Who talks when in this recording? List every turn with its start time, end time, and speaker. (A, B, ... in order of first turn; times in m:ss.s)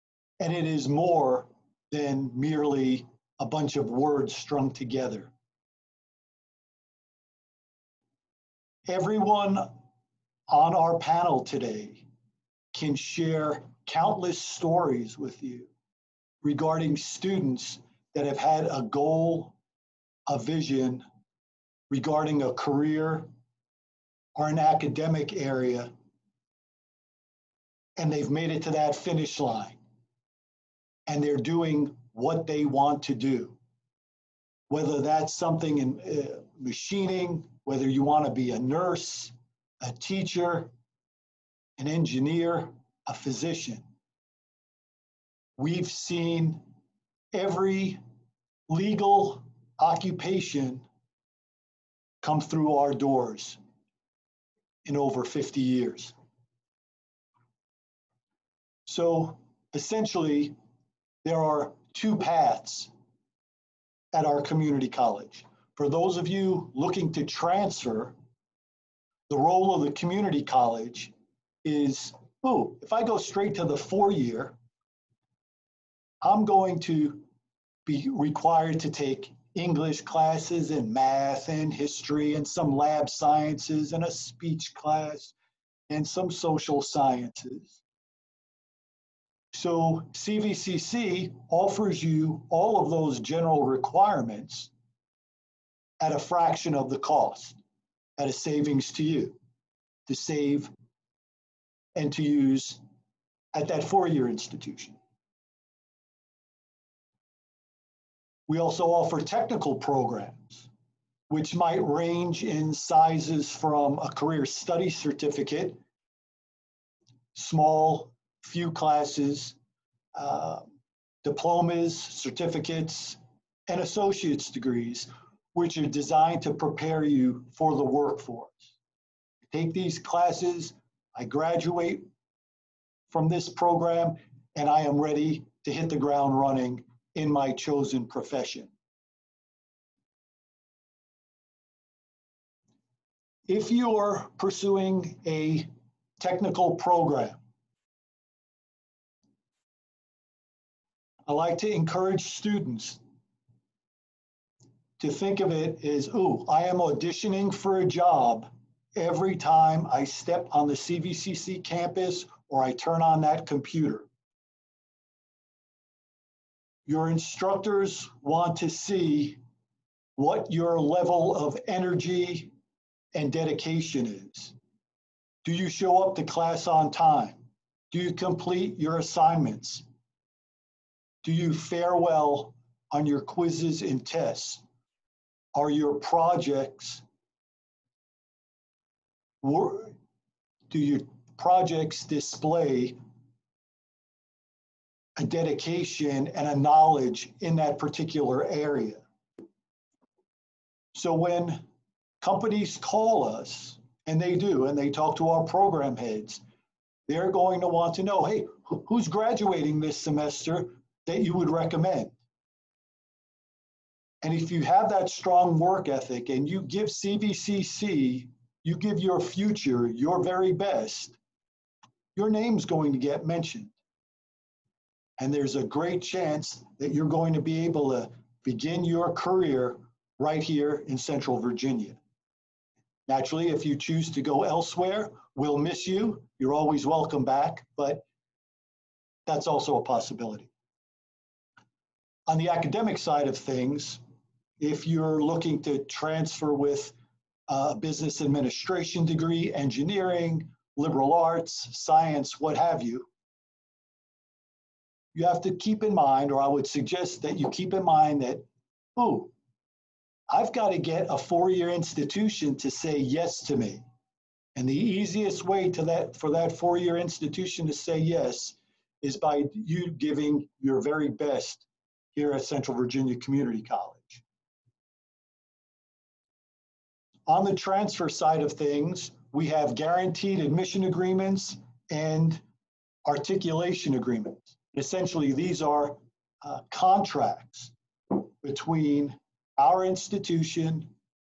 0:00.4-0:05.3 A
0:08.9-0:09.7 A
0:10.5-0:12.0 A
0:12.7-0:15.7 A
0:16.4-0:19.6 A
0:20.3-0:21.0 A
0:21.9-0:23.3 A
0:24.4-0:25.9 A
0:28.0-0:29.8 A
0:31.1-0:33.6 A
0:34.7-0:40.7 A
0:41.8-0:43.8 A
0:45.6-0:46.6 A
0:47.3-0:48.0 A
0:48.7-0:50.9 A
0:52.2-0:53.6 A
0:54.8-0:56.1 A
0:58.9-1:00.6 A
1:01.2-1:02.9 A
1:04.1-1:08.2 A
1:09.3-1:11.1 A
1:11.6-1:14.6 A
1:16.2-1:17.3 A
1:17.9-1:25.3 A
1:25.9-1:27.8 A
1:29.5-1:34.7 A
1:36.0-1:37.6 A
1:38.2-1:39.4 A
1:40.1-1:40.7 A
1:42.0-1:42.8 A
1:43.5-1:45.0 A
1:48.5-1:50.7 A
1:51.3-1:55.8 A
1:57.4-1:59.6 A
2:00.2-2:00.7 A
2:01.2-2:08.7 A
2:09.5-2:12.1 A
2:13.1-2:18.7 A
2:23.5-2:27.4 A
2:31.3-2:33.0 A
2:35.0-2:44.1 A
2:46.9-2:49.4 A
2:50.2-2:52.5 A
2:53.1-2:54.6 A
2:55.4-2:59.9 A
3:01.2-3:04.6 A
3:05.5-3:07.0 A
3:09.4-3:10.0 A
3:10.7-3:13.0 A
3:15.2-3:19.0 A
3:20.9-3:21.6 A
3:22.2-3:26.4 A
3:27.1-3:32.2 A
3:34.2-3:41.2 A
3:42.2-3:43.7 A
3:45.2-3:52.0 A
3:53.1-3:58.0 A
3:59.3-4:00.5 A
4:02.3-4:04.0 A
4:04.6-4:07.0 A
4:07.5-4:13.1 A
4:15.1-4:19.3 A
4:20.3-4:23.8 A
4:24.6-4:34.2 A
4:37.3-4:42.4 A
4:43.0-4:50.9 A